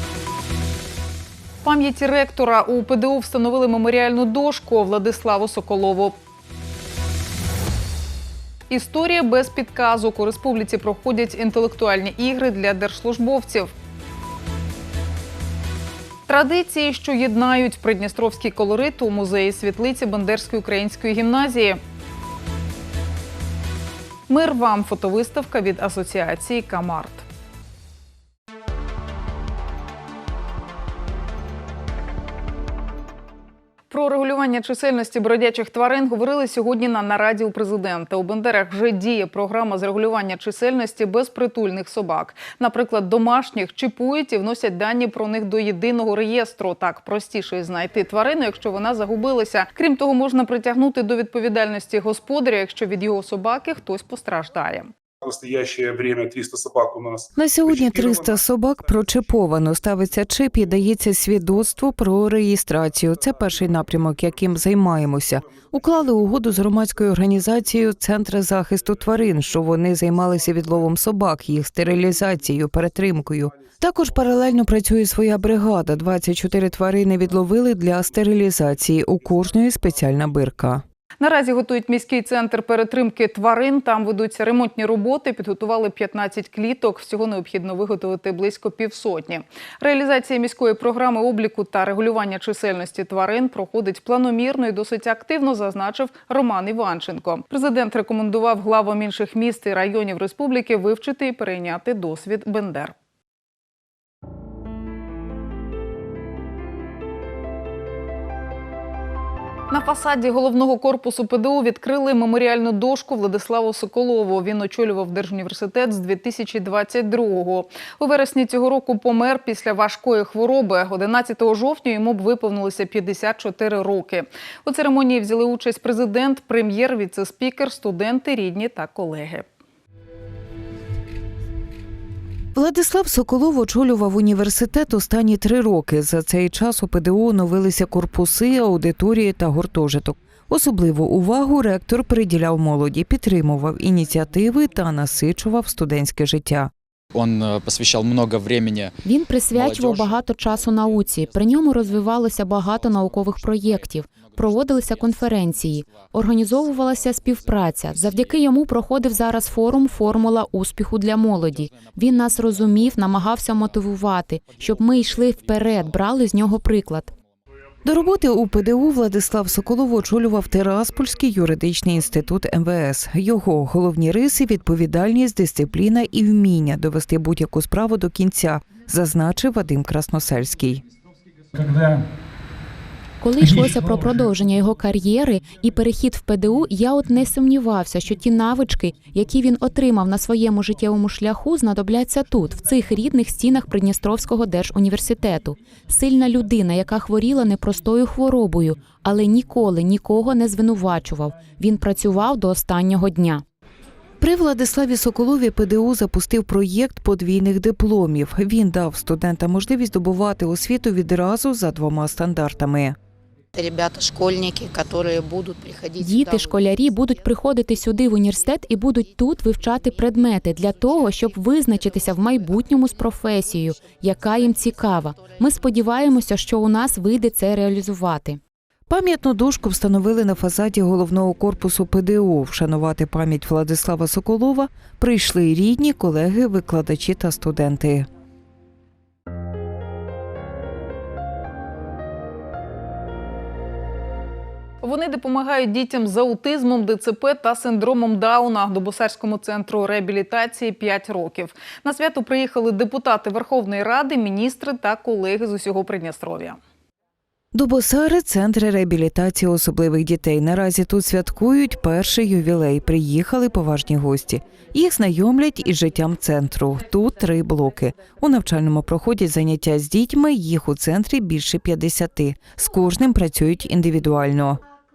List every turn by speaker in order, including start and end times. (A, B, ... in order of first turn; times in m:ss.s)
0:01.6-0:06.1 A
0:08.7-0:13.7 A
0:16.3-0:21.8 A
0:24.3-0:27.2 A
0:33.9-0:54.9 A
0:55.2-0:58.4 B
0:57.4-1:20.8 C
1:21.2-1:42.9 A
1:49.7-2:09.4 A
2:12.5-2:26.7 C
2:27.1-2:28.9 D
2:29.0-2:47.1 E
2:29.6-2:30.0 D
2:47.8-3:00.8 C
3:03.2-3:23.4 E
3:24.2-3:33.0 C
3:33.5-3:36.6 F
3:36.0-3:48.4 E
3:48.9-3:58.1 C
4:04.8-4:16.6 A
4:17.5-4:34.6 C